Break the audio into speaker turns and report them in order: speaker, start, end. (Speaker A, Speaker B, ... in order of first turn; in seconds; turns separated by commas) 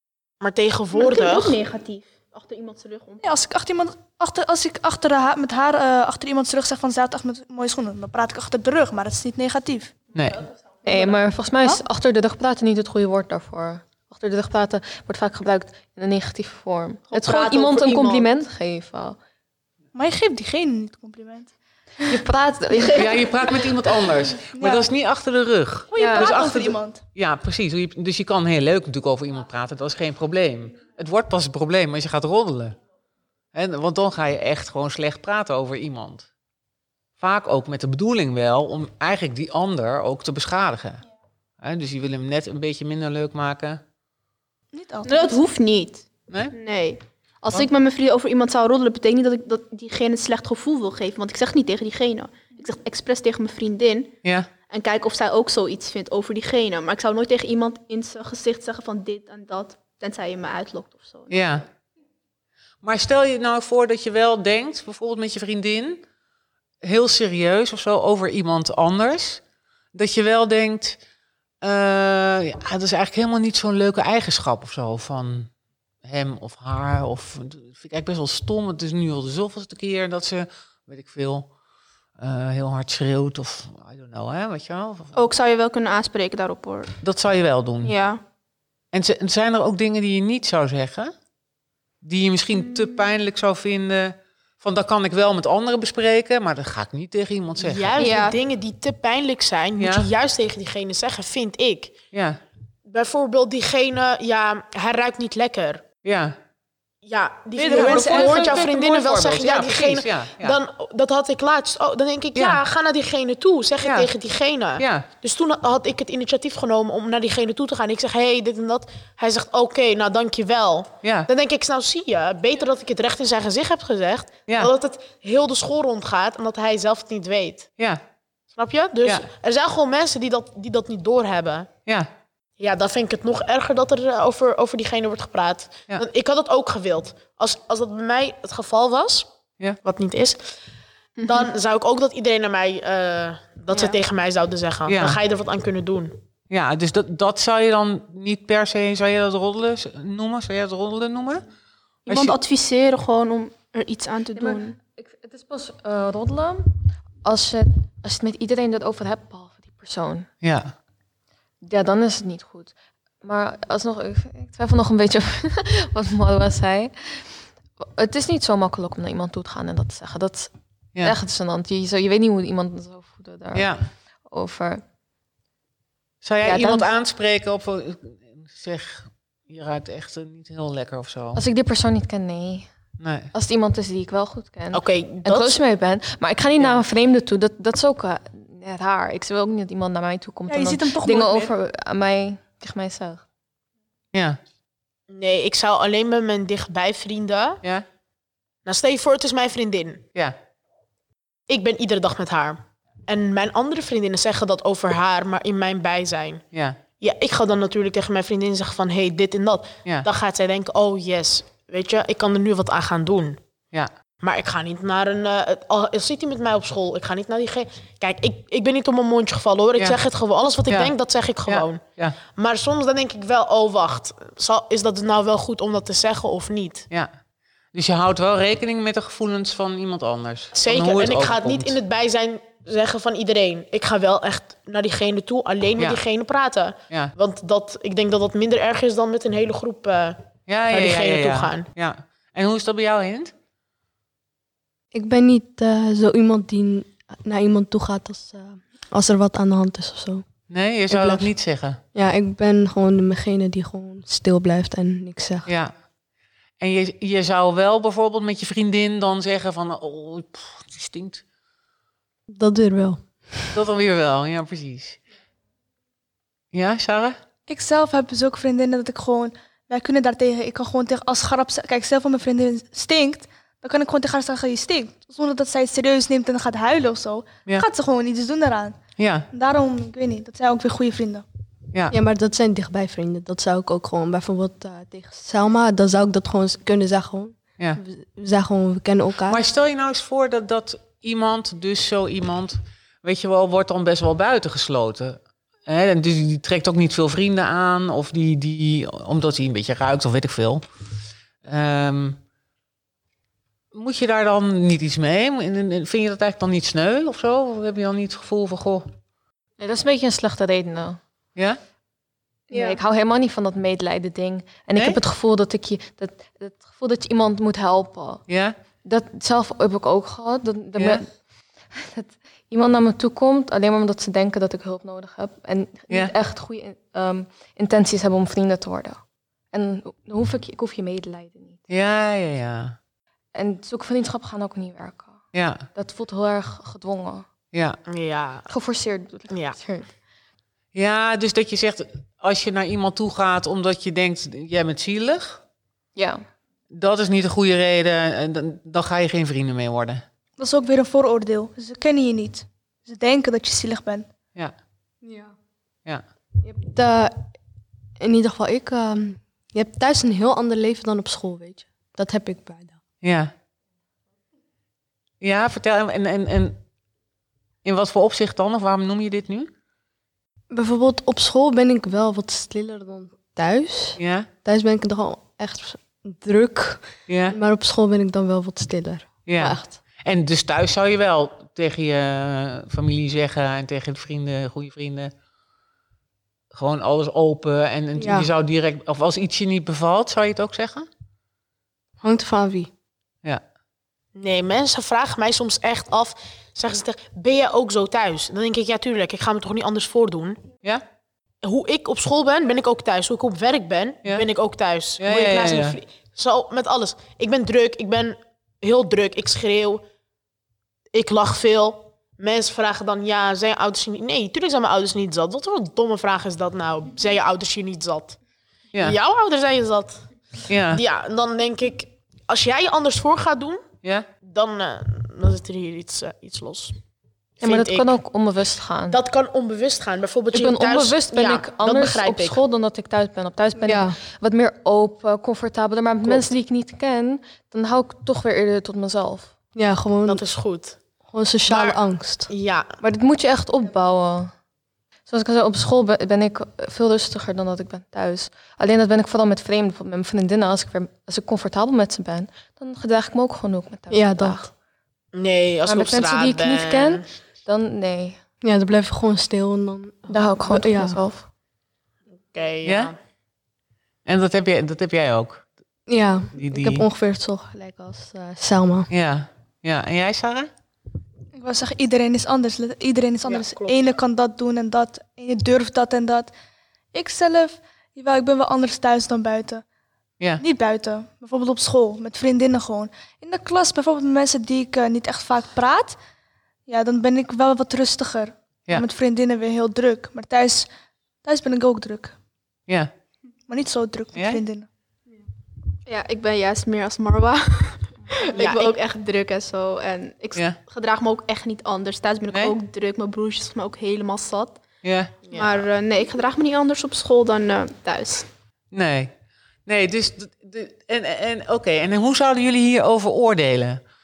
Speaker A: 0.4-1.6, Speaker B: 0.9-3.4, Speaker C: 3.2-10.0, Speaker D: 10.1-10.4, Speaker E: 10.8-19.2, Speaker A: 17.1-18.2, Speaker C: 19.9-21.5, Speaker E: 22.0-23.6, Speaker D: 22.9-32.8, Speaker C: 24.4-24.9, Speaker C: 25.9-27.0, Speaker D: 33.5-36.2, Speaker D: 37.2-41.0, Speaker D: 41.6-43.8, Speaker C: 44.7-45.4, Speaker B: 45.0-54.1, Speaker D: 46.3-46.5, Speaker D: 54.2-54.5, Speaker B: 54.7-61.6, Speaker D: 61.3-61.6, Speaker D: 62.8-66.0, Speaker D: 66.8-69.4, Speaker D: 69.9-71.0, Speaker D: 71.6-75.5, Speaker D: 76.0-81.5, Speaker D: 82.2-85.1, Speaker B: 85.1-86.9, Speaker D: 87.0-87.9, Speaker B: 87.8-88.2, Speaker D: 88.9-91.1, Speaker D: 92.0-98.0, Speaker B: 92.7-93.1, Speaker A: 97.6-102.0, Speaker B: 98.0-98.4, Speaker D: 99.8-100.1, Speaker D: 102.1-102.4, Speaker A: 102.9-105.8, Speaker D: 106.0-106.3, Speaker A: 107.0-127.7, Speaker C: 107.5-108.8, Speaker D: 107.6-110.6, Speaker D: 112.3-112.6, Speaker D: 113.8-114.1, Speaker D: 114.8-115.1, Speaker D: 121.0-121.3, Speaker A: 128.5-131.7, Speaker A: 132.6-139.3, Speaker A: 139.8-140.4, Speaker B: 141.2-141.5, Speaker A: 141.2-146.1, Speaker B: 143.7-144.0, Speaker D: 144.9-145.2, Speaker D: 146.5-151.4, Speaker B: 152.1-154.8, Speaker D: 152.1-152.3, Speaker E: 154.3-156.7, Speaker E: 157.2-160.3, Speaker D: 160.4-160.7, Speaker E: 161.6-170.5, Speaker E: 171.0-173.7, Speaker D: 173.5-173.8, Speaker E: 174.3-174.8, Speaker D: 176.2-181.4, Speaker E: 176.4-176.9, Speaker E: 181.3-182.7, Speaker D: 183.0-183.3, Speaker E: 183.3-193.2, Speaker A: 184.7-185.6, Speaker C: 190.5-191.5, Speaker D: 194.1-194.4, Speaker A: 195.1-197.6, Speaker A: 198.6-200.0, Speaker A: 201.5-206.4, Speaker D: 206.5-206.8, Speaker A: 207.0-213.4, Speaker A: 214.2-226.9, Speaker D: 220.7-220.9, Speaker D: 221.4-222.2, Speaker D: 227.7-231.8, Speaker A: 230.5-241.6, Speaker D: 235.8-236.0, Speaker D: 240.5-243.3, Speaker F: 244.9-250.2, Speaker D: 250.5-251.8, Speaker F: 250.9-251.3, Speaker F: 251.9-255.5, Speaker D: 255.4-255.7, Speaker D: 256.6-261.2, Speaker F: 262.3-263.5, Speaker D: 263.5-265.0, Speaker D: 266.5-267.2, Speaker C: 267.5-281.2, Speaker D: 279.0-279.3, Speaker F: 281.9-289.4, Speaker D: 289.3-300.6, Speaker D: 301.4-302.2, Speaker D: 303.7-308.9, Speaker E: 309.6-311.0, Speaker E: 312.5-318.2, Speaker B: 312.5-312.8, Speaker D: 318.3-318.6, Speaker E: 318.8-321.1, Speaker D: 320.8-321.0, Speaker E: 321.7-329.0, Speaker E: 329.5-331.6, Speaker D: 331.7-332.8, Speaker E: 333.3-335.2, Speaker D: 335.3-335.6, Speaker E: 335.7-337.2, Speaker D: 337.5-337.8, Speaker A: 337.9-338.5, Speaker E: 338.5-339.9, Speaker A: 339.3-339.6, Speaker D: 340.7-345.4, Speaker E: 345.9-346.2, Speaker D: 346.7-350.0, Speaker C: 350.4-354.1, Speaker F: 355.0-355.3, Speaker F: 356.4-357.2, Speaker F: 358.0-362.8, Speaker D: 363.0-363.3, Speaker D: 365.2-366.6, Speaker D: 367.6-369.5, Speaker F: 370.5-379.8, Speaker D: 374.0-374.3, Speaker D: 377.1-377.4, Speaker D: 379.3-385.1, Speaker D: 386.5-390.9, Speaker F: 388.0-388.3, Speaker F: 392.0-392.7, Speaker A: 394.1-400.4, Speaker A: 401.4-409.8, Speaker D: 405.0-405.8, Speaker A: 410.9-418.2, Speaker A: 418.8-420.0, Speaker D: 420.5-420.8, Speaker A: 420.7-423.7, Speaker A: 424.2-426.7, Speaker A: 427.4-427.9, Speaker E: 427.4-429.0, Speaker A: 428.9-432.4, Speaker E: 430.3-439.3, Speaker F: 433.6-434.0, Speaker F: 439.5-440.2, Speaker A: 440.1-440.8, Speaker F: 441.1-442.3, Speaker A: 441.4-442.7, Speaker E: 442.8-444.3, Speaker E: 445.1-454.5, Speaker F: 453.9-454.4, Speaker A: 455.1-457.0, Speaker E: 455.6-458.2, Speaker F: 458.4-461.0, Speaker E: 460.1-461.2, Speaker A: 462.3-462.9, Speaker D: 462.6-462.9, Speaker D: 464.1-465.5, Speaker F: 465.9-468.9, Speaker D: 466.3-466.9, Speaker D: 468.9-470.5, Speaker C: 471.3-476.3, Speaker A: 473.2-473.8, Speaker C: 476.9-479.6, Speaker C: 480.4-486.0, Speaker C: 486.7-490.7, Speaker C: 491.2-492.1, Speaker C: 493.5-494.7, Speaker D: 494.1-494.4, Speaker B: 495.9-504.6, Speaker A: 498.4-498.8, Speaker D: 504.8-505.1, Speaker A: 505.3-505.6, Speaker B: 505.3-508.3, Speaker D: 508.7-509.1, Speaker D: 509.6-513.8